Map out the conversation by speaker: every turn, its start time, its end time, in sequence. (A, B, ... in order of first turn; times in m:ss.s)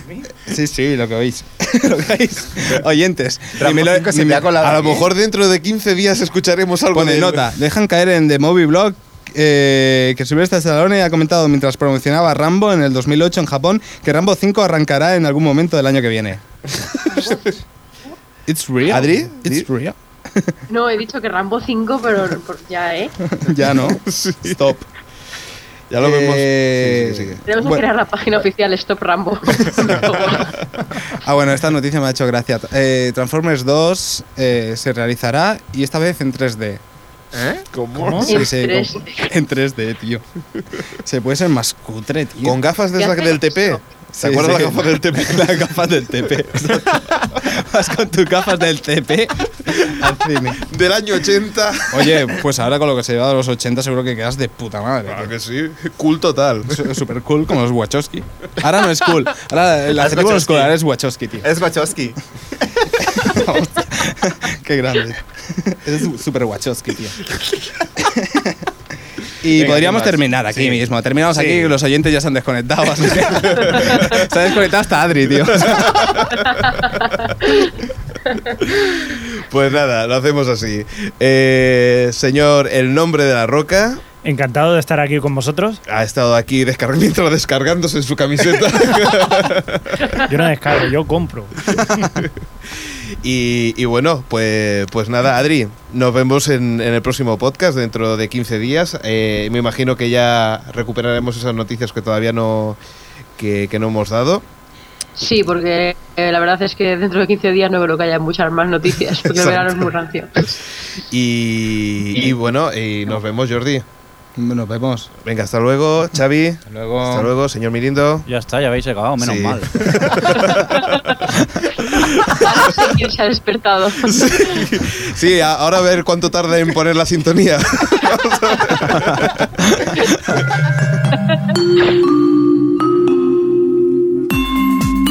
0:00.3-0:04.7 A
0:03.6-0:05.1 B
0:04.6-0:07.5 C
0:06.9-0:17.5 A
0:18.4-0:20.6 A
0:18.9-0:19.7 C
0:20.7-0:23.2 D
0:23.2-0:24.9 A
0:23.8-0:24.6 C
0:25.9-0:27.4 C
0:26.0-0:27.8 A
0:27.5-0:30.5 D
0:29.9-0:30.3 A
0:31.0-0:36.8 A
0:37.3-0:37.6 B
0:37.7-0:38.4 C
0:38.1-0:40.2 A
0:38.2-0:39.2 D
0:41.0-0:42.6 A
0:42.4-0:45.6 C
0:43.0-0:43.8 D
0:44.1-0:50.6 A
0:49.6-0:52.4 C
0:51.9-0:55.3 A
0:55.1-0:56.9 C
0:56.7-1:01.4 A
1:00.0-1:00.7 C
1:01.4-1:02.6 B
1:03.0-1:07.3 A
1:08.0-1:08.6 A
1:09.4-1:16.2 A
1:09.5-1:11.8 C
1:13.1-1:14.3 C
1:15.6-1:16.9 C
1:16.6-1:17.7 D
1:18.6-1:24.0 C
1:24.2-1:25.8 E
1:25.9-1:30.2 C
1:30.2-1:31.7 E
1:31.8-1:32.1 A
1:32.2-1:42.8 C
1:43.4-1:44.4 C
1:45.2-1:50.6 D
1:49.3-1:49.8 C
1:51.1-1:53.8 C
1:54.4-1:55.1 A
1:55.2-1:58.3 C
1:56.7-1:57.3 A
1:58.3-2:00.2 F
1:59.2-2:01.2 C
2:02.0-2:02.7 C
2:02.2-2:04.5 D
2:04.0-2:09.7 C
2:11.1-2:11.5 D